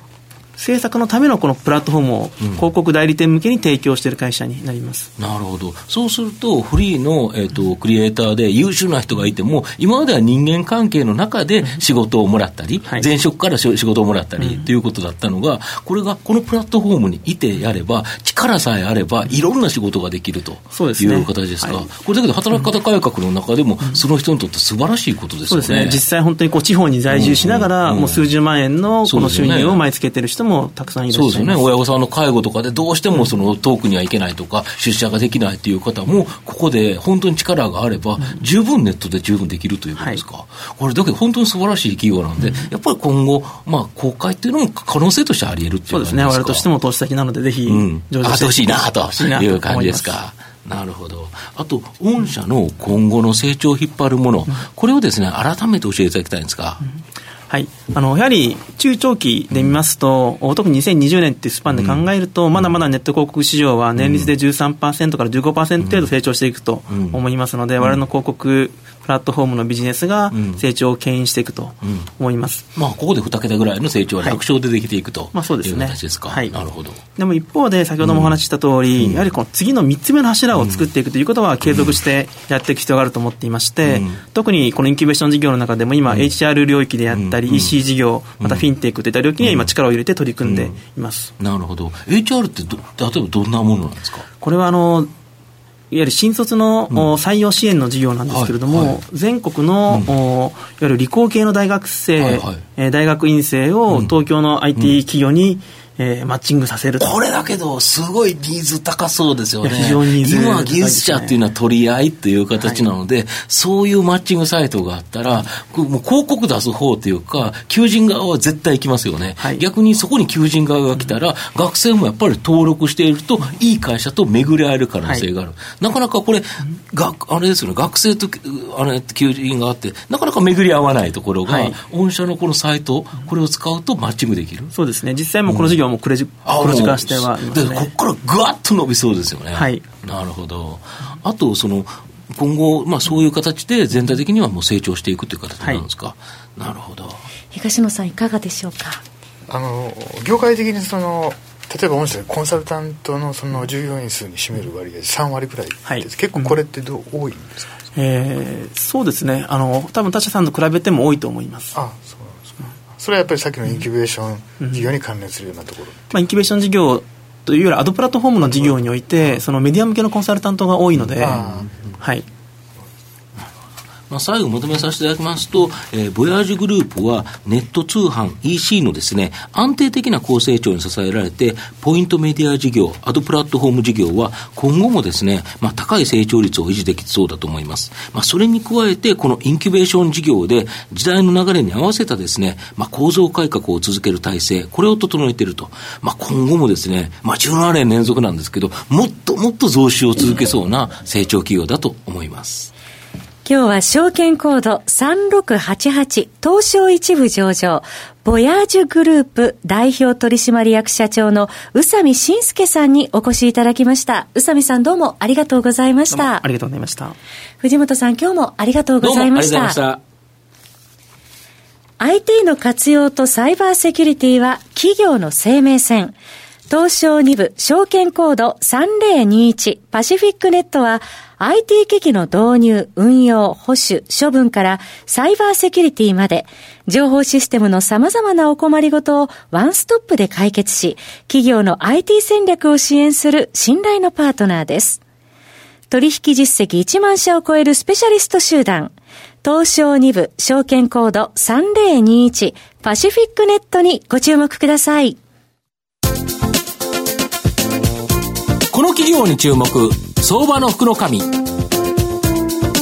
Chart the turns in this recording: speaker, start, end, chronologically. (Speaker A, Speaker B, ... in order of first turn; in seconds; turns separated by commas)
Speaker A: 0.6-5.1, Speaker B: 5.2-26.0, Speaker A: 14.4-14.6, Speaker A: 20.7-21.9, Speaker A: 25.5-31.6, Speaker B: 27.1-28.2, Speaker B: 29.0-29.8, Speaker B: 31.1-46.7, Speaker A: 40.0-40.2, Speaker A: 42.4-42.7, Speaker A: 45.9-50.2, Speaker B: 47.6-56.8, Speaker A: 57.5-72.7, Speaker B: 59.5-59.8, Speaker B: 61.7-62.0, Speaker B: 64.0-64.3, Speaker B: 65.8-66.1, Speaker B: 66.9-67.2, Speaker B: 70.3-70.6, Speaker B: 71.8-72.1, Speaker B: 72.7-77.0, Speaker A: 75.3-76.5, Speaker A: 77.1-91.3, Speaker B: 78.0-78.4, Speaker B: 79.0-79.3, Speaker B: 80.5-80.8, Speaker B: 81.6-82.0, Speaker B: 83.8-84.2, Speaker B: 86.1-86.3, Speaker B: 87.1-87.8, Speaker B: 88.4-88.7, Speaker B: 89.4-89.7, Speaker B: 90.4-90.8, Speaker B: 91.4-94.2, Speaker A: 94.4-95.1, Speaker A: 95.9-107.1, Speaker B: 98.3-99.0, Speaker B: 102.2-102.6, Speaker B: 107.0-134.7, Speaker A: 109.6-111.3, Speaker A: 119.4-119.6, Speaker A: 131.4-131.8, Speaker A: 134.7-137.9, Speaker B: 135.5-135.8, Speaker B: 136.4-147.3, Speaker A: 139.5-139.8, Speaker A: 145.6-145.8, Speaker C: 147.5-149.0, Speaker D: 149.5-157.7, Speaker A: 155.8-156.6, Speaker A: 157.9-161.8, Speaker D: 161.7-166.2, Speaker A: 166.1-171.4, Speaker D: 168.4-168.7, Speaker B: 171.0-171.7, Speaker D: 171.2-171.7, Speaker A: 172.0-172.3, Speaker B: 174.1-202.7, Speaker C: 203.4-216.4, Speaker A: 216.1-217.2, Speaker C: 217.6-219.8, Speaker B: 219.0-220.0, Speaker C: 222.0-226.2, Speaker C: 226.7-245.0, Speaker C: 245.9-248.9, Speaker C: 249.4-255.2, Speaker E: 258.7-261.3